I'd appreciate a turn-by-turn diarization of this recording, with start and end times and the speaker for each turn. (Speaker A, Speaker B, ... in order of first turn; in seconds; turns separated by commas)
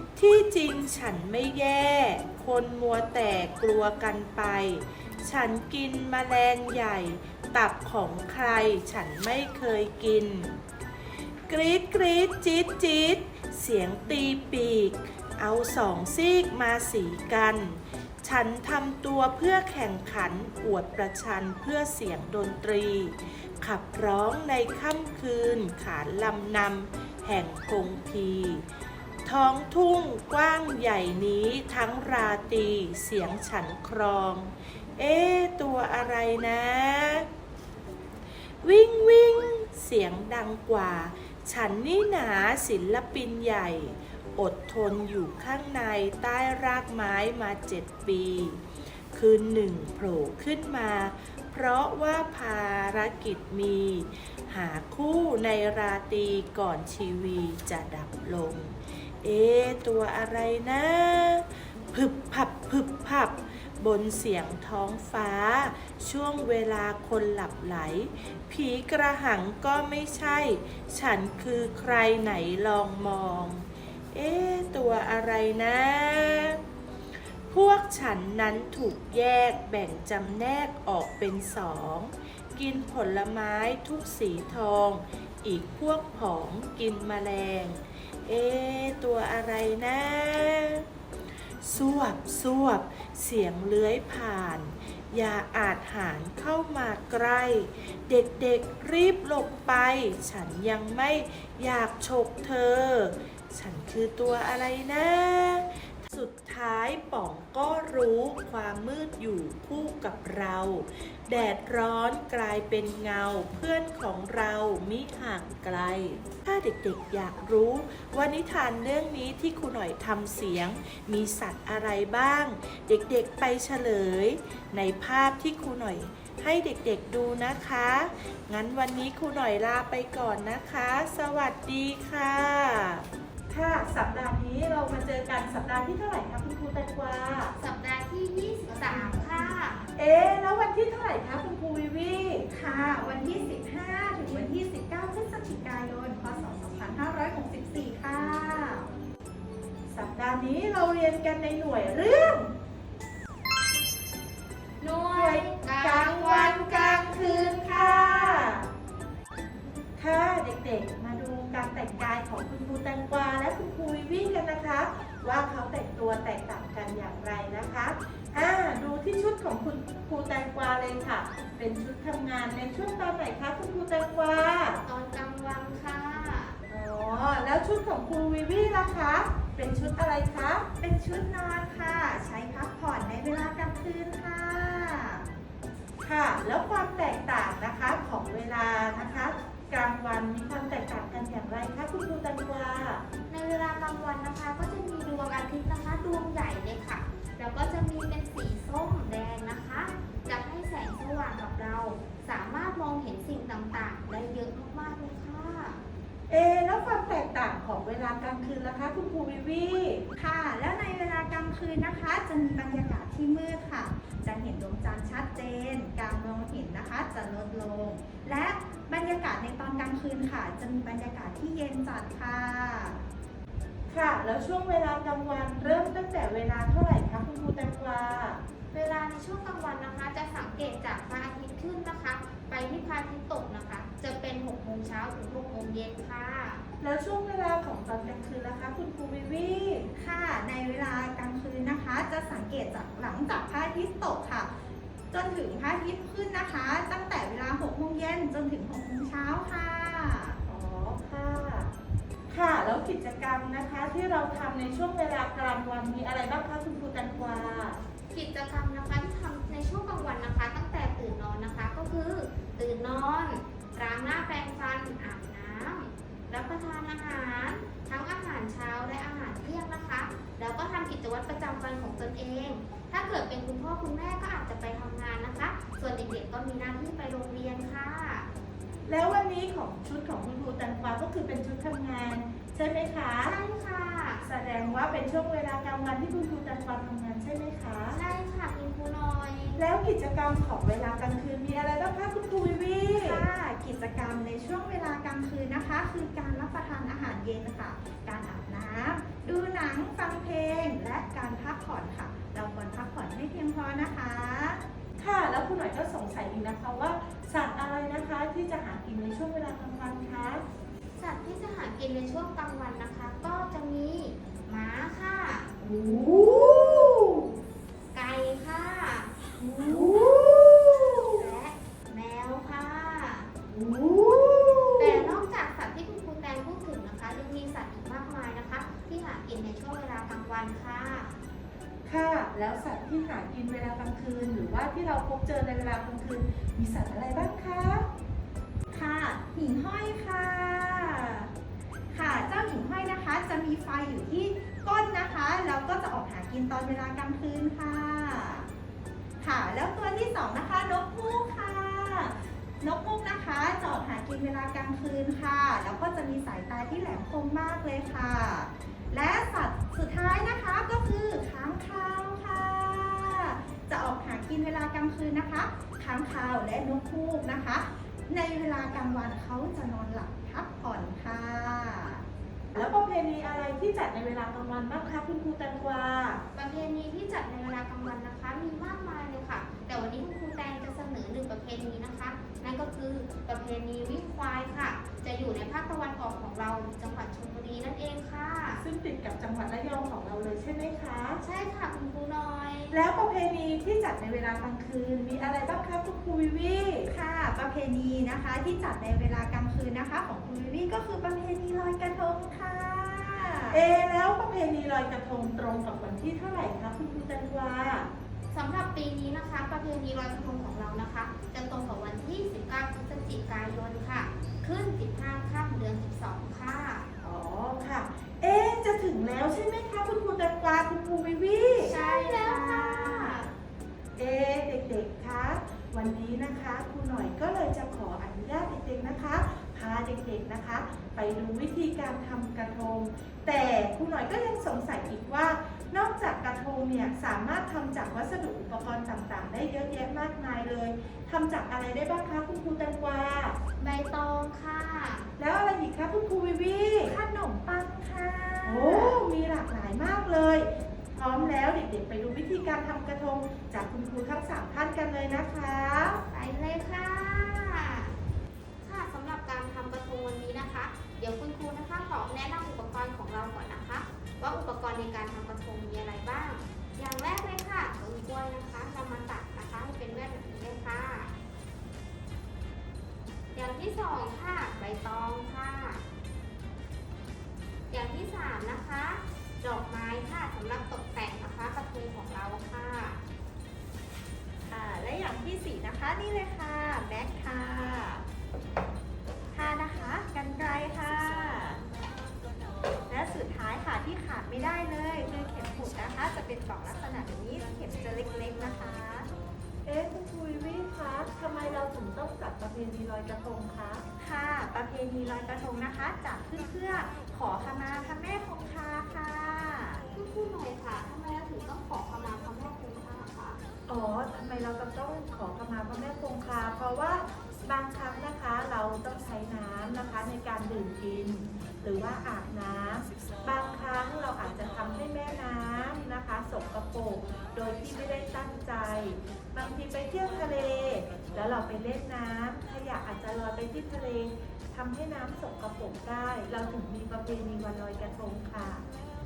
Speaker A: 0.1-10.6, Speaker A: 11.5-28.6, Speaker A: 29.2-37.2, Speaker A: 38.6-48.6, Speaker A: 49.1-76.6, Speaker A: 77.5-90.8, Speaker A: 91.6-137.5, Speaker B: 137.6-139.8, Speaker C: 138.9-139.5, Speaker A: 139.9-142.5, Speaker C: 142.5-148.9, Speaker A: 149.9-152.5, Speaker B: 154.8-158.4, Speaker A: 155.1-158.6, Speaker A: 160.0-174.8, Speaker B: 174.8-176.6, Speaker A: 176.7-180.7, Speaker C: 180.8-185.2, Speaker A: 186.0-193.0, Speaker B: 193.3-205.8, Speaker A: 206.3-210.1, Speaker C: 210.2-223.0, Speaker A: 223.9-228.4, Speaker B: 228.7-236.6, Speaker A: 236.8-239.9, Speaker C: 239.9-244.5, Speaker C: 245.1-250.4, Speaker A: 250.4-251.7, Speaker A: 252.3-257.8, Speaker B: 258.1-278.3, Speaker A: 278.9-283.4, Speaker B: 283.2-284.2, Speaker A: 284.2-288.0, Speaker B: 287.9-289.6, Speaker A: 289.6-293.2, Speaker C: 292.9-304.6, Speaker A: 305.0-310.4, Speaker B: 311.0-315.5, Speaker A: 315.6-317.3, Speaker B: 317.9-319.1, Speaker A: 319.4-321.1, Speaker B: 319.7-323.3, Speaker A: 323.5-325.1, Speaker B: 324.8-331.1, Speaker A: 331.9-337.9, Speaker C: 338.7-341.3, Speaker C: 341.9-348.5, Speaker C: 349.2-372.8, Speaker A: 372.5-376.2, Speaker B: 376.3-388.6, Speaker A: 388.6-391.2, Speaker B: 391.2-392.8, Speaker A: 392.7-396.9, Speaker C: 396.9-403.6, Speaker A: 403.5-407.9, Speaker B: 408.3-416.9, Speaker A: 417.0-421.8, Speaker B: 421.6-423.3, Speaker C: 421.7-423.3, Speaker A: 424.0-443.4, Speaker B: 443.6-445.1, Speaker A: 445.2-447.0, Speaker C: 446.8-449.0, Speaker A: 448.4-456.0, Speaker B: 456.1-457.9, Speaker B: 458.6-471.1, Speaker B: 473.3-475.8, Speaker B: 477.7-483.0, Speaker C: 484.5-488.0, Speaker C: 489.3-491.6, Speaker C: 492.9-499.1, Speaker A: 499.6-503.8, Speaker C: 504.0-509.9, Speaker B: 509.9-513.4, Speaker A: 513.7-538.6